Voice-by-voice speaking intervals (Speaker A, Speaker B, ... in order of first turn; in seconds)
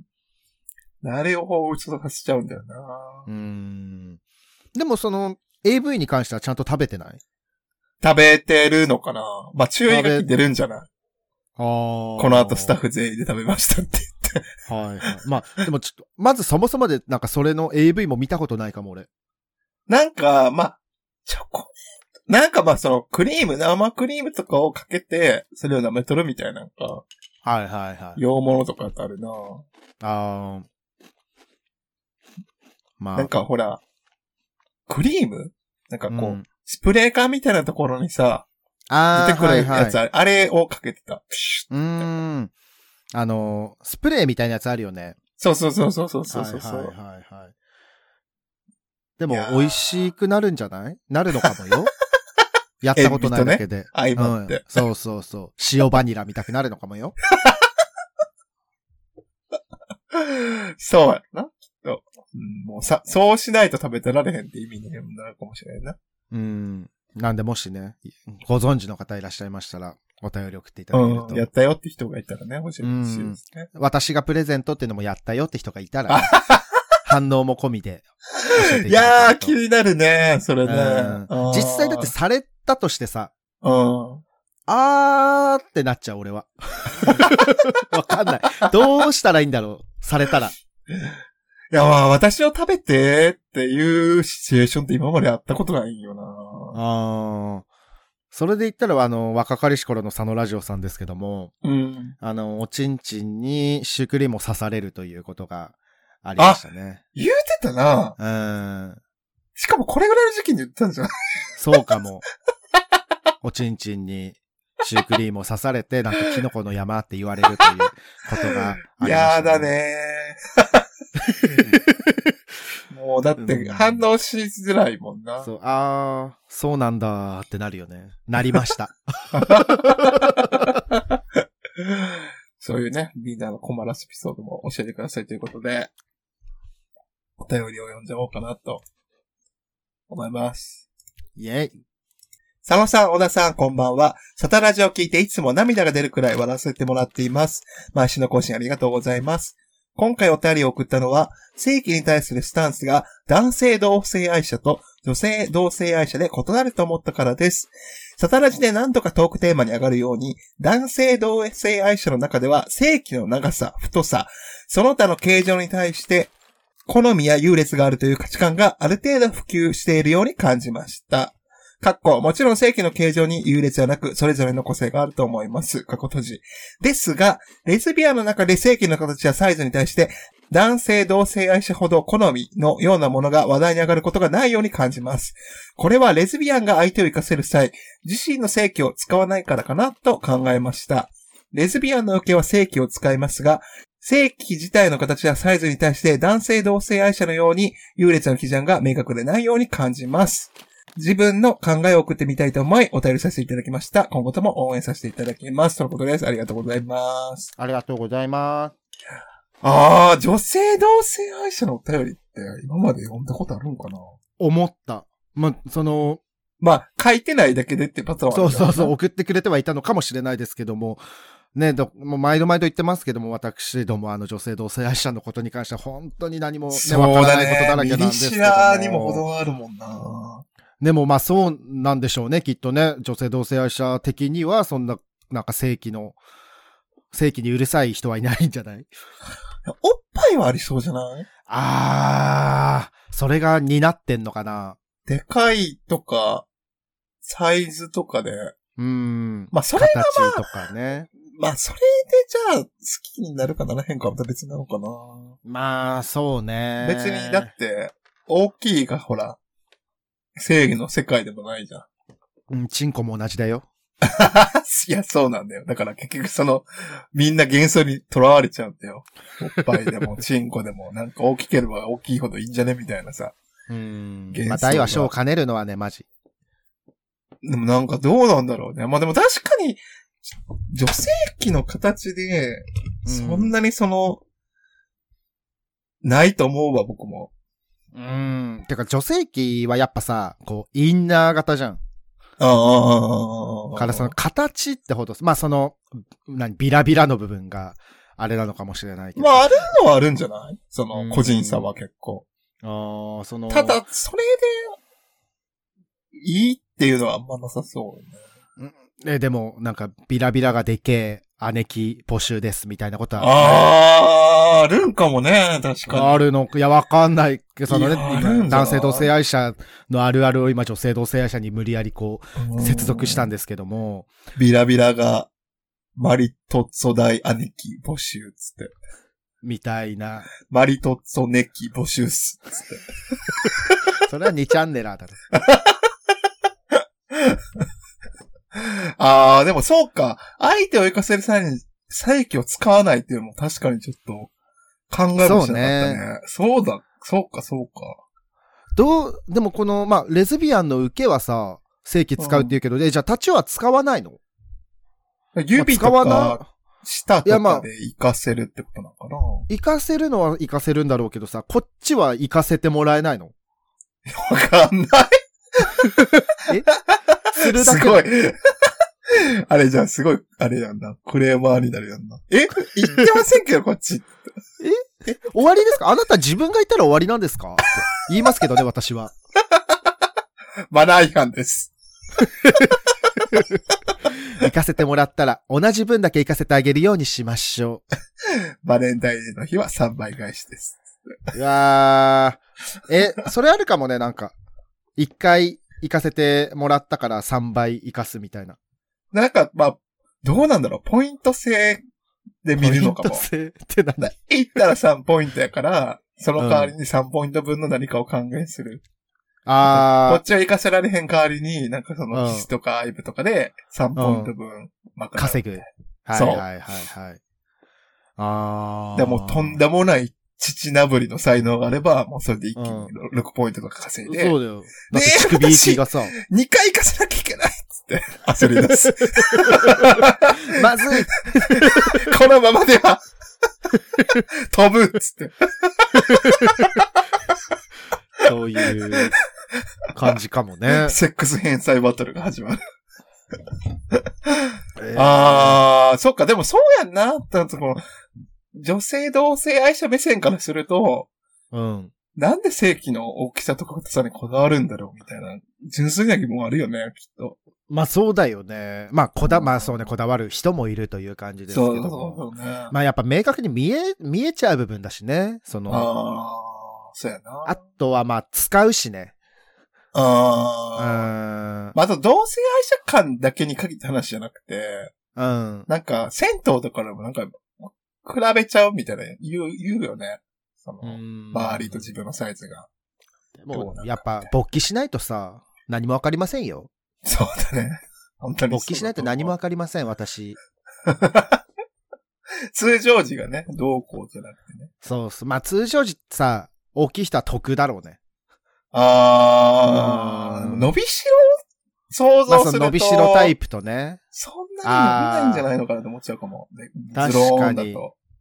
Speaker A: 1.0-3.3, 8.0-10.9, 12.2-14.5, 19.9-21.7, 22.3-27.1, 28.2-29.6, 33.2-33.8, 34.9-38.5, 39.1-41.7, 45.4-46.9, 49.3-50.1, 53.0-54.8, 57.3-57.7, 60.1-66.0, 70.9-73.7, 76.1-76.7, 78.5-82.1, 83.6-84.2, 87.1-87.5, 91.7-96.8, 101.6-102.2, 107.2-108.2, 109.6-111.1, 119.0-120.9, 121.5-121.8, 122.9-125.5, 129.3-131.2, 131.8-135.9, 137.4-138.8, 140.1-140.8, 142.6-166.3, 166.9-207.5, 209.6-214.2, 216.6-218.9, 226.7-230.4, 239.7-241.3, 245.1-246.5, 247.2-248.5, 249.5-250.5, 251.3-255.4, 256.8-259.4, 260.4-261.9, 264.0-273.4, 274.3-275.1, 277.4-284.2, 286.0-287.3, 292.4-294.1, 299.2-302.2, 303.5-304.8, 306.1-308.2, 313.2-316.2, 317.7-319.1, 322.4-323.3, 324.4-325.3, 326.0-328.7, 330.5-333.7, 335.3-335.9, 336.7-337.4, 338.5-344.3, 344.9-348.0, 352.2-352.6, 355.4-359.5, 364.1-365.9, 366.9-374.2, 380.7-381.7, 388.3-391.2, 399.1-401.8, 402.4-403.2, 404.0-408.8, 409.7-416.4, 419.0-424.4, 424.9-433.0, 434.2-436.8, 440.7-442.6, 443.9-447.8, 448.5-451.1, 452.2-457.4, 459.2-459.9, 461.5-462.7, 465.7-467.6, 469.9-471.1, 471.8-474.9, 475.7-482.7, 483.5-484.3, 487.0-489.3, 490.9-491.4, 492.5-494.7, 498.7-501.4, 501.9-503.3, 504.1-507.9
Speaker B: 3.3-4.2, 4.8-7.2, 9.9-10.3, 11.6-12.8, 14.7-19.1, 27.4-28.2, 30.0-30.7, 33.0-33.3, 36.1-36.5, 38.9-40.0, 41.7-42.5, 43.1-45.2, 46.3-47.5, 49.2-51.9, 52.8-57.2, 66.3-71.5, 72.8-76.4, 77.0-79.5, 80.7-83.3, 84.7-90.5, 96.7-97.7, 98.3-101.5, 102.2-107.0, 108.2-109.0, 111.6-112.2, 113.4-119.7, 121.3-122.3, 123.4-124.0, 125.4-130.7, 141.4-141.8, 207.6-208.8, 214.4-216.2, 218.3-221.0, 221.5-229.2, 230.8-236.2, 237.1-238.9, 241.5-244.8, 248.8-251.1, 255.4-257.5, 262.5-263.7, 273.7-276.1, 283.1-283.5, 287.9-291.8, 293.8-299.5, 300.9-301.7, 302.6-303.8, 308.6-313.7, 315.9-324.1, 329.4-330.3, 334.0-335.2, 345.2-346.0, 348.8-354.2, 355.6-356.5, 357.2-357.7, 359.5-363.3, 367.3-368.1, 374.6-379.1, 382.2-382.8, 384.1-387.8, 391.3-394.3, 395.0-398.6, 402.6-404.1, 406.4-406.7, 409.5-410.2, 412.1-412.5, 414.0-414.3, 415.2-417.2, 418.2-419.6, 422.6-422.9, 424.1-426.1, 429.2-432.1, 435.9-436.7, 438.2-439.2, 439.9-441.0, 444.8-445.6, 451.5-451.9, 457.7-465.9, 467.4-469.1, 470.8-471.8, 475.2-475.7, 480.8-481.9, 483.4-486.7, 488.5-490.4, 494.8-498.0, 499.7-500.7, 502.3-504.0, 504.6-505.5, 506.9-507.8